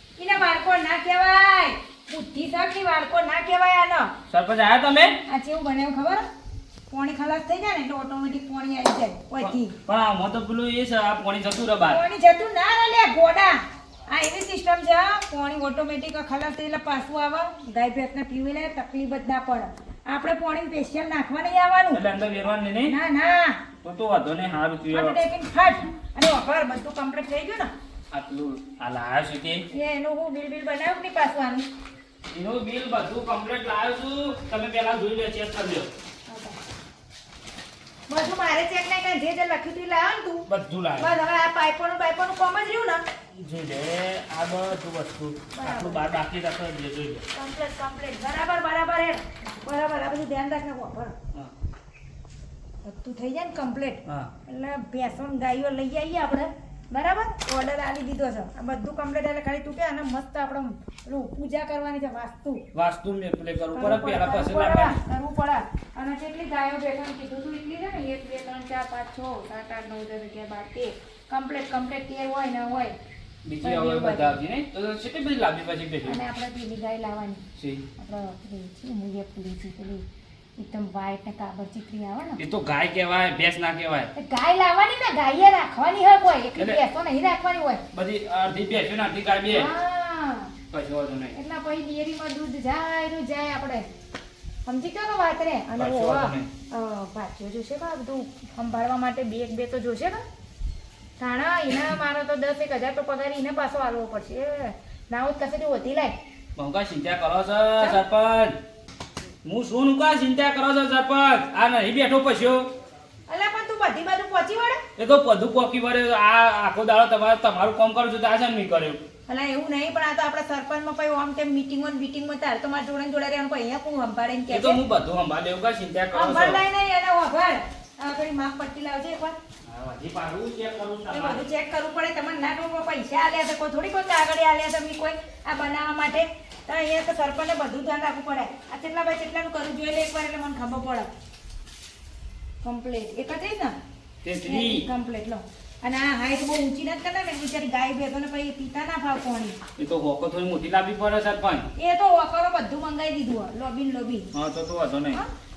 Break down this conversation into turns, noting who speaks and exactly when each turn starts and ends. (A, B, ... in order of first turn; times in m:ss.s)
0:00.2-0:04.1 A
0:04.3-0:05.2 B
0:05.3-0:06.3 A
0:06.9-0:09.8 A
0:09.4-0:12.0 B
0:11.9-0:22.0 A
0:21.9-0:23.0 B
0:22.9-0:23.6 A
0:23.8-0:25.2 B
0:24.9-0:27.7 A
0:28.1-0:29.6 B
0:29.7-0:31.7 A
0:32.3-0:35.9 B
0:36.3-0:36.6 A
0:38.1-0:40.5 A
0:40.5-0:41.2 B
0:41.0-0:43.0 A
0:43.4-0:47.2 B
0:45.5-0:46.1 A
0:47.4-0:51.1 A
0:52.8-1:02.6 A
0:54.1-0:54.3 B
1:02.8-1:05.0 B
1:03.8-1:13.0 A
1:13.5-1:16.2 B
1:13.6-1:14.4 A
1:16.0-1:17.4 A
1:17.6-1:17.8 B
1:18.0-1:20.0 A
1:20.6-1:22.4 A
1:22.4-1:24.1 B
1:24.2-1:27.8 A
1:26.6-1:26.8 B
1:27.9-1:29.7 B
1:29.5-1:30.5 A
1:30.7-1:31.4 B
1:31.3-1:33.9 A
1:34.6-1:40.2 A
1:35.8-1:36.5 B
1:41.2-1:46.2 A
1:46.6-1:48.6 B
1:49.4-1:52.7 B
1:53.3-1:54.8 A
1:55.0-1:59.0 B
1:59.3-2:04.8 A
2:04.5-2:06.6 B
2:06.1-2:09.4 A
2:09.7-2:11.4 B
2:11.1-2:21.1 A
2:22.6-2:23.8 A
2:24.2-2:24.9 B
2:24.4-2:29.6 A
2:29.8-2:31.7 B
2:31.8-2:34.3 A
2:34.4-2:35.2 B